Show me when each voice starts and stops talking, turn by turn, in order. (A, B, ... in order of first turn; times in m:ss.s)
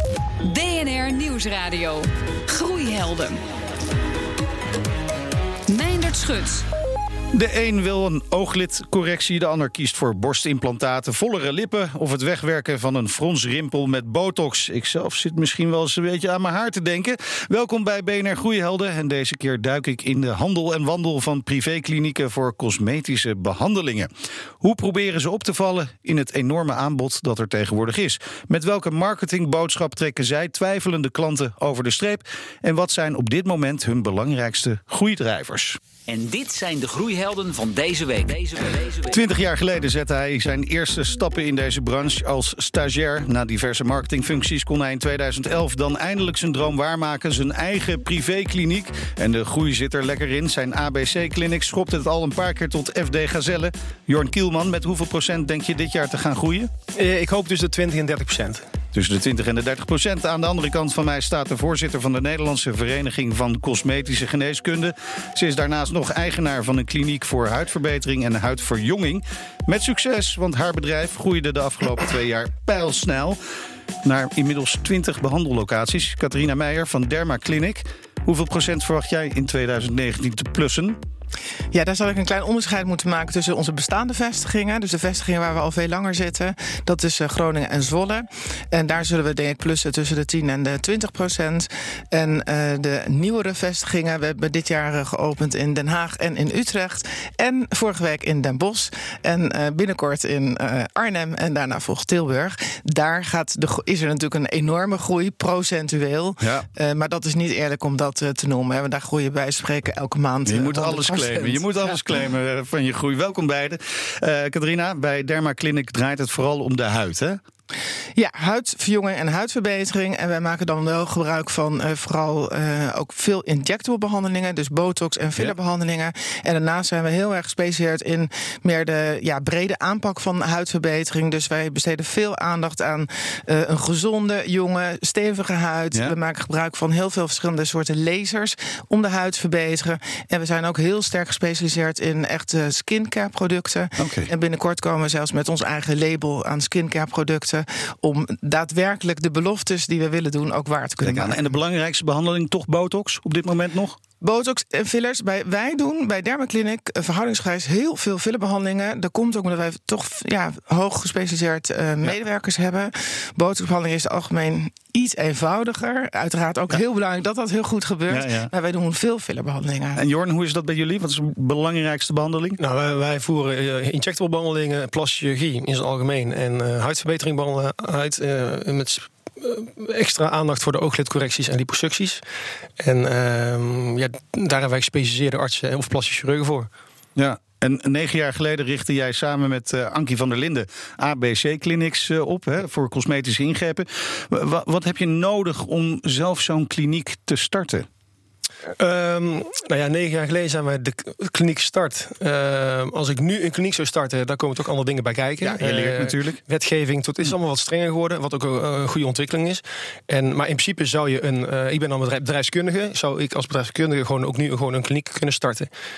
0:00.4-0:03.4 A
0:05.7-0:06.6 A
0:07.3-0:24.1 B
0:24.6-0:35.8 B
0:36.1-0:39.2 C
0:39.1-0:56.7 B
0:57.0-0:58.6 D
0:58.9-1:13.4 B
1:14.0-1:21.0 B
1:21.7-1:52.0 E
1:46.4-1:46.7 B
1:50.4-1:57.4 B
1:58.2-2:31.4 E
2:24.0-2:24.3 B
2:31.0-2:34.0 B
2:34.2-2:50.0 E
2:48.1-2:48.5 B
2:50.0-2:52.6 B
2:52.6-3:02.2 D
3:02.8-3:06.7 D
3:07.2-3:17.9 B
3:18.8-3:35.7 D
3:25.4-3:26.4 B